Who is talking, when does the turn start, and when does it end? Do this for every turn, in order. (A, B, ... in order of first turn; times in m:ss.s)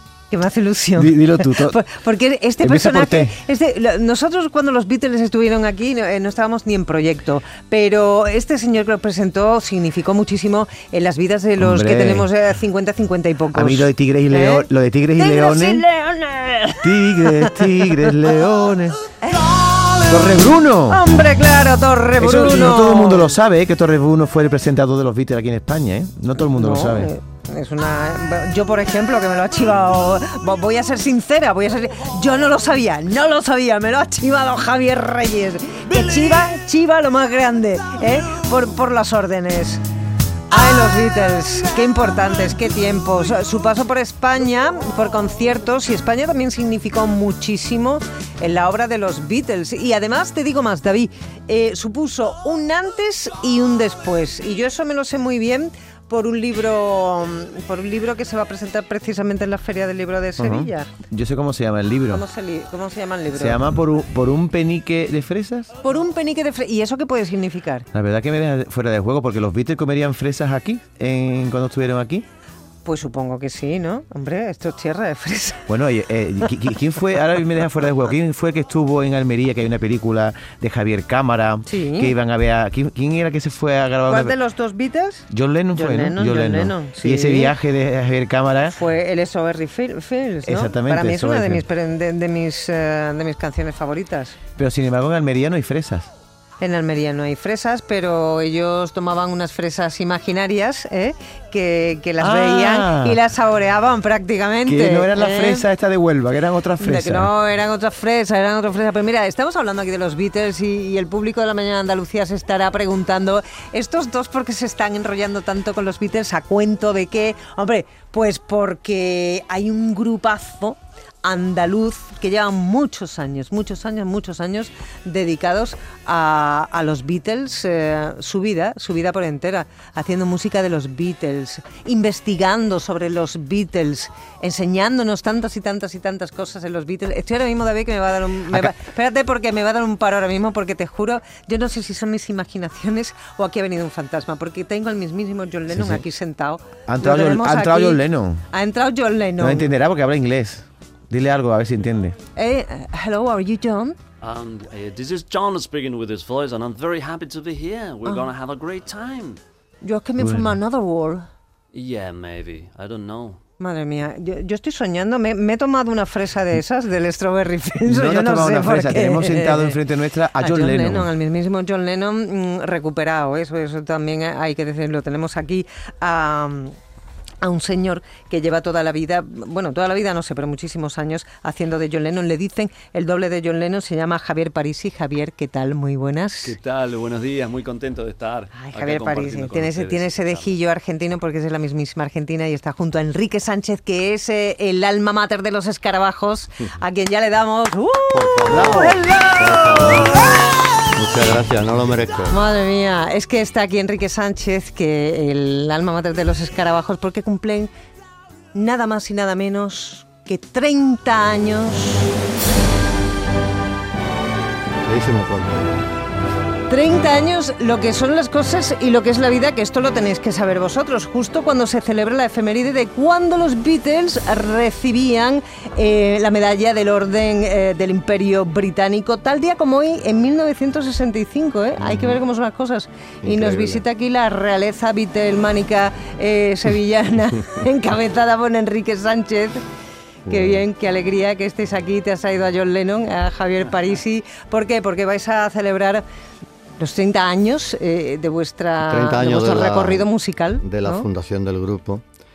0:00.3-0:18.1 A
0:01.0-0:01.8 B
0:02.6-0:03.3 B
0:11.6-0:12.3 B
0:13.5-0:15.8 B
0:16.8-0:19.0 B
0:19.2-0:23.3 A
0:20.1-0:21.0 B
0:22.2-0:27.1 B
0:26.6-0:39.8 A
0:40.5-1:00.9 A
1:00.4-1:02.2 B
1:02.1-1:03.6 A
1:03.3-1:05.7 B
1:05.8-1:07.9 A
1:07.9-1:12.2 B
1:12.8-1:15.7 A
1:15.7-1:24.3 B
1:21.6-1:22.1 A
1:24.1-1:27.5 A
1:25.3-1:28.7 B
1:28.7-1:34.4 A
1:30.4-1:31.6 B
1:34.6-1:36.1 B
1:36.6-1:45.6 A
1:42.2-1:43.2 B
1:44.6-1:47.3 B
1:46.8-2:29.7 A
2:18.5-2:18.7 B
2:25.7-2:26.0 B
2:26.9-2:28.4 B
2:29.4-2:32.2 B
2:32.4-2:34.0 A
2:34.2-2:39.4 C
2:39.8-2:41.3 A
2:40.2-2:40.5 B
2:41.7-2:43.4 C
2:43.6-2:49.8 A
2:47.9-2:51.1 B
2:50.4-2:56.8 A
2:57.4-3:06.6 A
3:06.4-3:10.5 C
3:08.5-3:20.5 A
3:18.1-3:20.2 D
3:18.5-3:18.9 B
3:20.9-3:22.3 D
3:22.3-3:27.7 A
3:28.5-3:32.1 A
3:34.8-3:35.8 D
3:36.7-3:59.6 A
3:53.2-3:53.8 D
4:00.3-4:00.6 D
4:00.3-4:06.0 A
4:06.8-4:11.1 A
4:08.8-4:12.0 D